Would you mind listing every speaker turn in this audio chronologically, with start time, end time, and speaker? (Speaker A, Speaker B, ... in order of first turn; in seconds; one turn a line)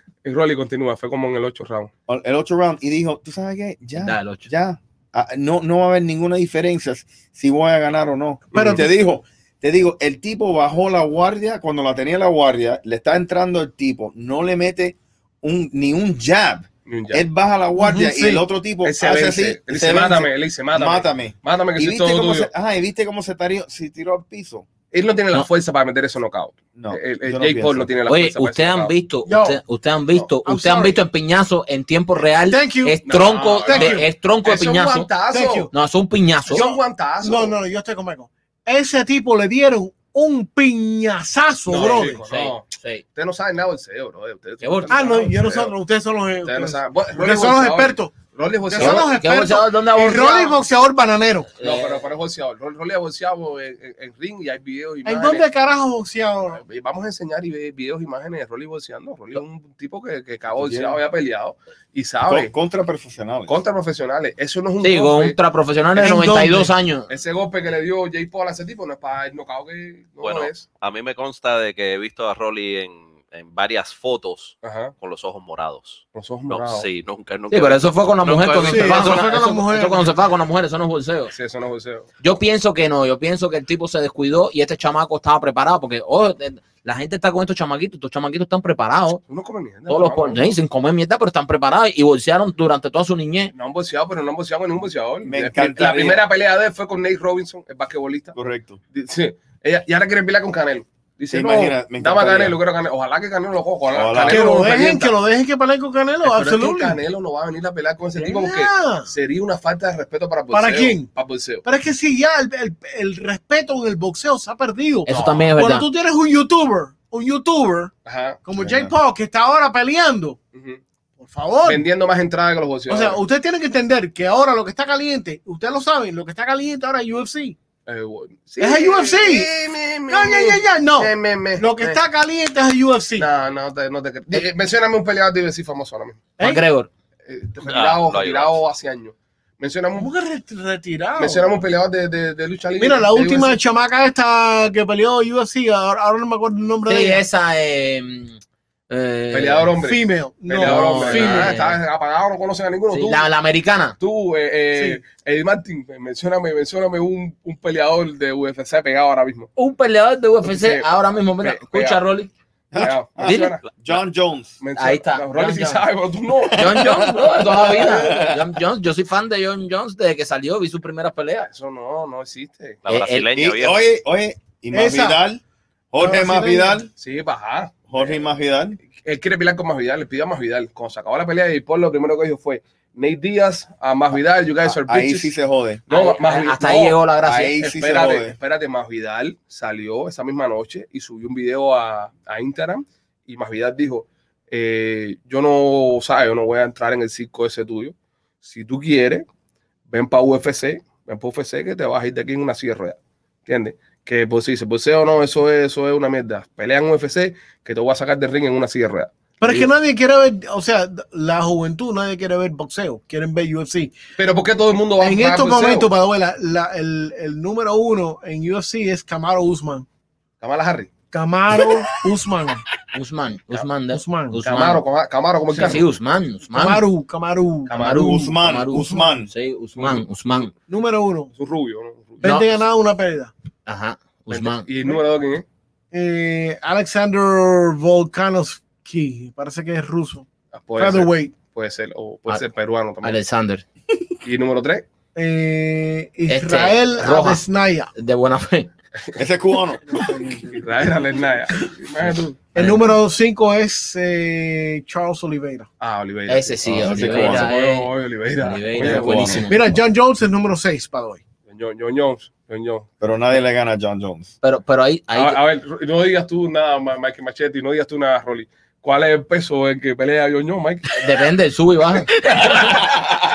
Speaker A: 0.2-1.9
Speaker B: 2.1-24.7
Speaker C: 4.0-4.5
Speaker A: 8.5-8.8
Speaker D: 8.5-8.9
Speaker A: 16.9-17.2
Speaker D: 17.8-18.4
Speaker A: 18.8-22.5
Speaker A: 24.9-28.9
Speaker B: 26.8-27.9
Speaker C: 28.1-35.1
Speaker D: 29.3-29.6
Speaker D: 30.5-31.0
Speaker D: 32.2-33.0
Speaker A: 33.1-35.7
Speaker D: 33.7-34.1
Speaker D: 35.3-35.7
Speaker C: 35.7-36.7
Speaker A: 36.5-37.6
Speaker D: 36.5-42.2
Speaker A: 41.7-45.8
Speaker C: 41.8-43.0
Speaker C: 44.6-45.2
Speaker D: 44.9-48.1
Speaker A: 46.4-49.1
Speaker D: 48.7-51.5
Speaker C: 48.8-50.6
Speaker C: 51.6-52.0
Speaker A: 51.6-55.5
Speaker D: 55.0-56.6
Speaker A: 56.5-62.5
Speaker B: 60.5-61.0
Speaker B: 62.2-63.6
Speaker A: 63.5-65.4
Speaker C: 64.8-67.1
Speaker D: 66.0-66.7
Speaker A: 67.1-70.7
Speaker E: 70.2-79.3
Speaker A: 74.6-74.9
Speaker A: 76.1-76.9
Speaker C: 77.5-81.3
Speaker D: 78.7-80.1
Speaker A: 81.3-82.1
Speaker C: 82.2-89.2
Speaker A: 89.3-90.5
Speaker C: 89.9-93.5
Speaker A: 93.5-98.3
Speaker B: 95.2-96.3
Speaker B: 98.3-98.8
Speaker A: 98.9-105.2
Speaker B: 101.3-102.6
Speaker B: 103.9-104.5
Speaker D: 104.3-107.0
Speaker A: 106.2-111.7
Speaker D: 108.2-109.1
Speaker D: 110.5-111.1
Speaker D: 111.7-117.9
Speaker C: 115.1-115.9
Speaker A: 115.1-115.5
Speaker A: 118.1-118.4
Speaker D: 118.5-120.4
Speaker B: 118.6-118.9
Speaker A: 120.5-120.8
Speaker D: 121.2-121.8
Speaker A: 121.7-123.2
Speaker D: 122.9-127.6
Speaker A: 127.9-132.0
Speaker D: 128.6-129.5
Speaker D: 130.1-133.3
Speaker A: 133.2-136.2
Speaker D: 136.4-136.6
Speaker C: 136.4-136.9
Speaker A: 137.3-140.1
Speaker E: 137.6-138.6
Speaker D: 140.0-141.5
Speaker A: 141.2-143.6
Speaker D: 142.8-147.3
Speaker C: 146.9-149.7
Speaker A: 149.3-153.3
Speaker D: 149.8-151.6
Speaker C: 150.6-151.8
Speaker C: 152.9-154.0
Speaker A: 154.0-159.5
Speaker C: 159.6-162.3
Speaker A: 160.4-162.0
Speaker B: 162.7-164.6
Speaker A: 162.7-163.6
Speaker C: 162.8-163.6
Speaker A: 164.6-166.8
Speaker C: 164.8-165.8
Speaker B: 166.4-168.6
Speaker C: 166.6-171.5
Speaker A: 171.4-172.8
Speaker E: 172.8-173.8
Speaker C: 172.9-173.3
Speaker B: 173.3-176.9
Speaker D: 174.7-175.2
Speaker D: 176.0-176.8
Speaker A: 177.0-178.2
Speaker B: 177.9-178.8
Speaker A: 178.9-185.3
Speaker B: 184.6-185.8
Speaker A: 185.9-199.3
Speaker C: 185.9-187.5
Speaker B: 187.3-188.3
Speaker A: 199.9-209.7
Speaker D: 209.4-213.9
Speaker A: 214.2-215.9
Speaker D: 215.0-219.9
Speaker A: 220.4-220.9
Speaker D: 221.1-222.6
Speaker C: 222.9-224.8
Speaker D: 223.9-224.4
Speaker A: 224.4-225.8
Speaker C: 225.5-226.8
Speaker D: 226.5-227.8
Speaker A: 227.7-228.3
Speaker C: 227.7-230.5
Speaker B: 227.8-229.3
Speaker D: 228.8-229.1
Speaker A: 229.8-230.0
Speaker D: 230.7-231.3
Speaker A: 231.4-232.3
Speaker D: 232.2-233.3
Speaker C: 232.2-232.5
Speaker C: 233.7-234.7
Speaker A: 234.3-235.4
Speaker D: 235.9-240.3
Speaker A: 240.5-243.2
Speaker D: 240.8-241.3
Speaker C: 243.0-243.7
Speaker A: 244.2-244.9
Speaker D: 245.2-247.9
Speaker C: 246.3-247.4
Speaker C: 247.9-248.7
Speaker B: 249.2-250.0
Speaker D: 249.9-250.6
Speaker A: 250.5-252.4
Speaker D: 252.5-255.7
Speaker C: 252.6-252.8
Speaker A: 255.8-259.5
Speaker C: 256.3-259.6
Speaker B: 256.6-257.5
Speaker B: 258.8-259.5
Speaker D: 259.5-261.2
Speaker A: 261.5-262.9
Speaker B: 263.0-264.3
Speaker C: 264.4-265.4
Speaker A: 265.1-271.0
Speaker C: 271.0-272.9